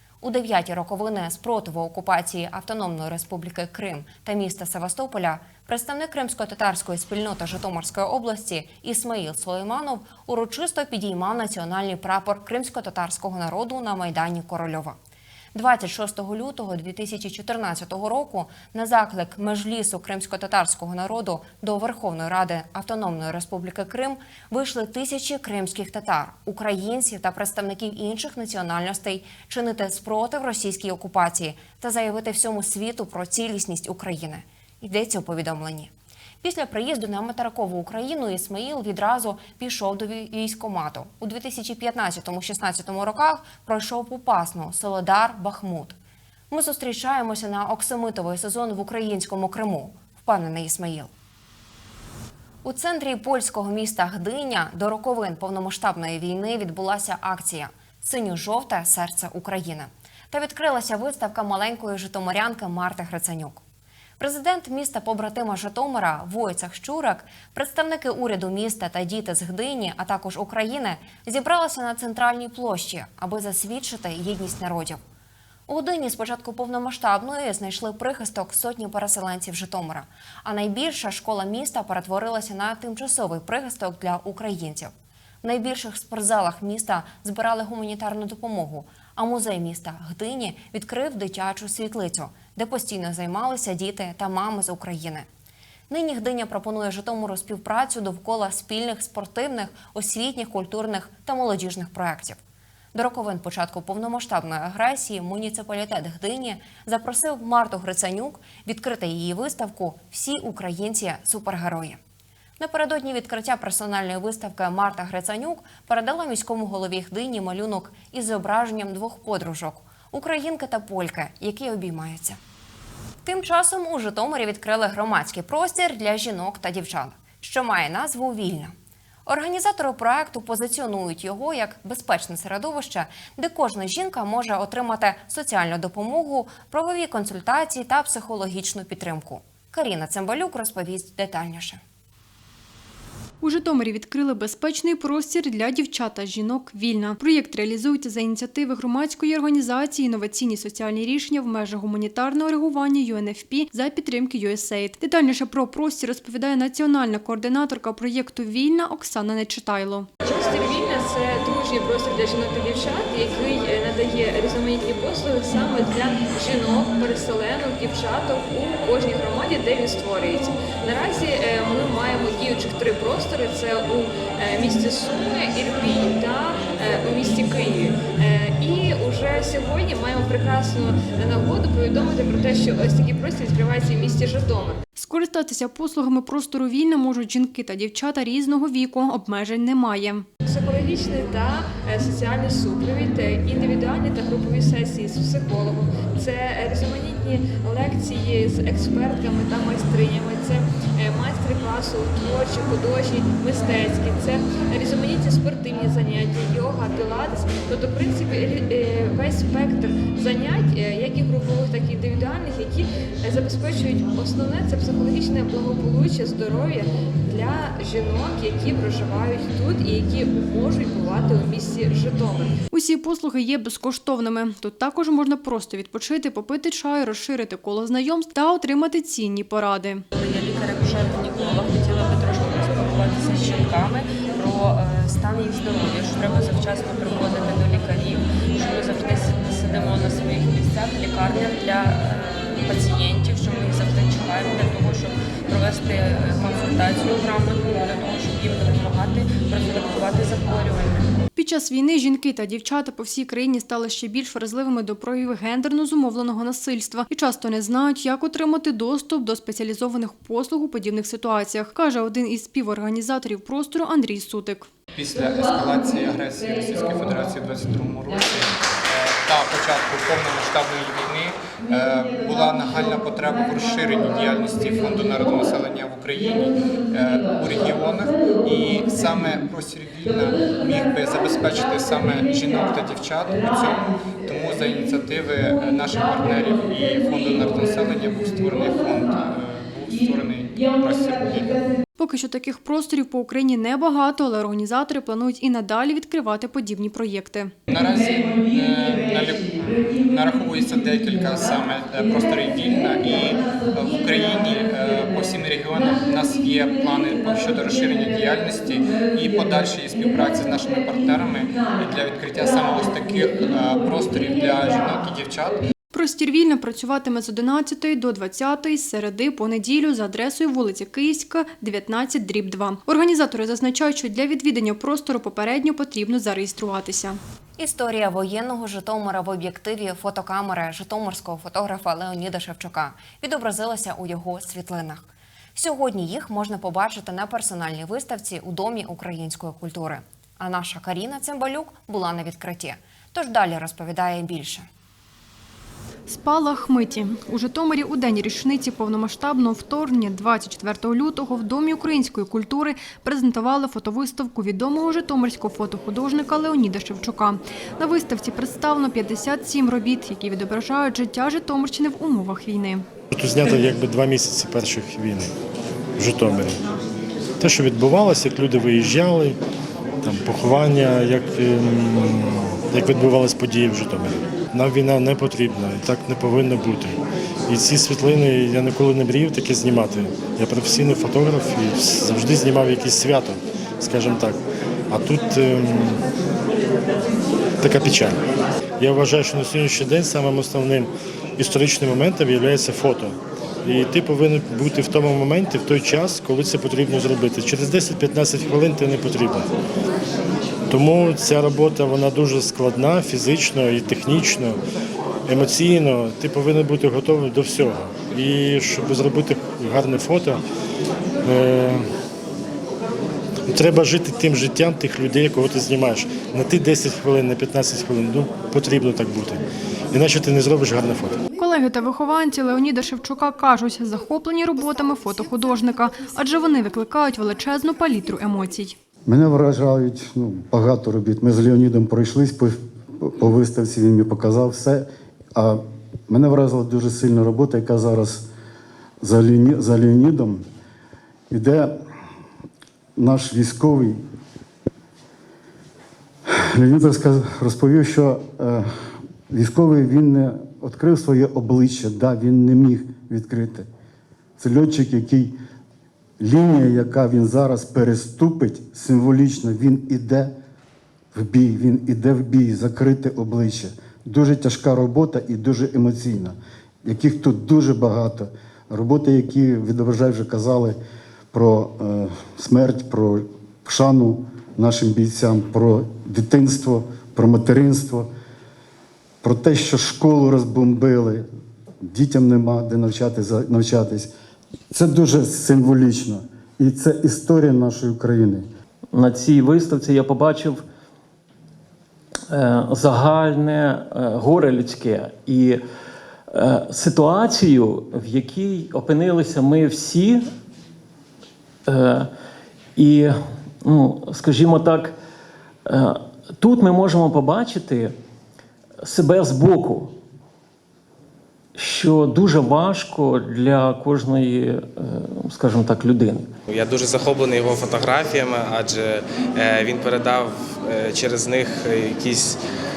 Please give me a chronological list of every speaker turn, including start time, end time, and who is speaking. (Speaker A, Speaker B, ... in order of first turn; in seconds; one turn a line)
Speaker A: 0.2-15.0
Speaker A: 15.5-35.9
Speaker A: 36.4-46.0
Speaker A: 46.5-51.1
Speaker A: 52.6-63.6
Speaker A: 64.2-75.0
Speaker A: 75.7-84.9
Speaker A: 85.4-95.3
Speaker A: 95.9-102.4
Speaker A: 102.9-112.0
Speaker A: 112.6-122.4
Speaker A: 123.2-128.7
Speaker A: 129.3-141.8
Speaker B: 143.4-160.1
Speaker C: 160.2-184.8
Speaker B: 185.0-190.3
Speaker C: 190.4-222.6
Speaker B: 222.7-230.1
Speaker D: 230.2-251.1
Speaker B: 251.4-264.7
Speaker E: 264.9-291.6
Speaker B: 292.0-297.5
Speaker E: 297.7-315.6
Speaker B: 315.9-327.2
Speaker A: 327.6-344.7
Speaker B: 346.1-362.9
Speaker F: 363.2-365.3
Speaker F: 366.0-366.5
Speaker F: 367.4-369.3
Speaker F: 370.1-372.2
Speaker F: 372.7-376.9
Speaker F: 377.5-384.4
Speaker F: 384.9-385.9
Speaker F: 387.6-388.1
Speaker F: 388.8-390.9
Speaker F: 391.4-393.1
Speaker F: 393.7-399.4
Speaker F: 400.7-404.5
Speaker F: 405.3-410.4
Speaker F: 411.3-411.8
Speaker F: 413.5-419.4
Speaker F: 420.0-421.1
Speaker B: 421.2-428.8
Speaker G: 429.1-438.3
Speaker G: 439.0-440.5
Speaker G: 441.3-441.8
Speaker G: 443.0-444.0
Speaker G: 446.3-448.7
Speaker G: 449.3-453.7
Speaker G: 454.4-455.4
Speaker G: 456.2-460.3
Speaker G: 461.1-470.8
Speaker G: 471.3-478.1
Speaker G: 479.2-481.3
Speaker G: 481.8-484.1
Speaker G: 484.7-488.5
Speaker H: 488.9-490.6
Speaker H: 492.3-495.6
Speaker H: 496.3-500.3
Speaker H: 501.7-502.1
Speaker H: 502.8-504.9
Speaker H: 505.7-508.0
Speaker H: 508.8-510.0
Speaker H: 511.6-516.3
Speaker I: 516.5-522.4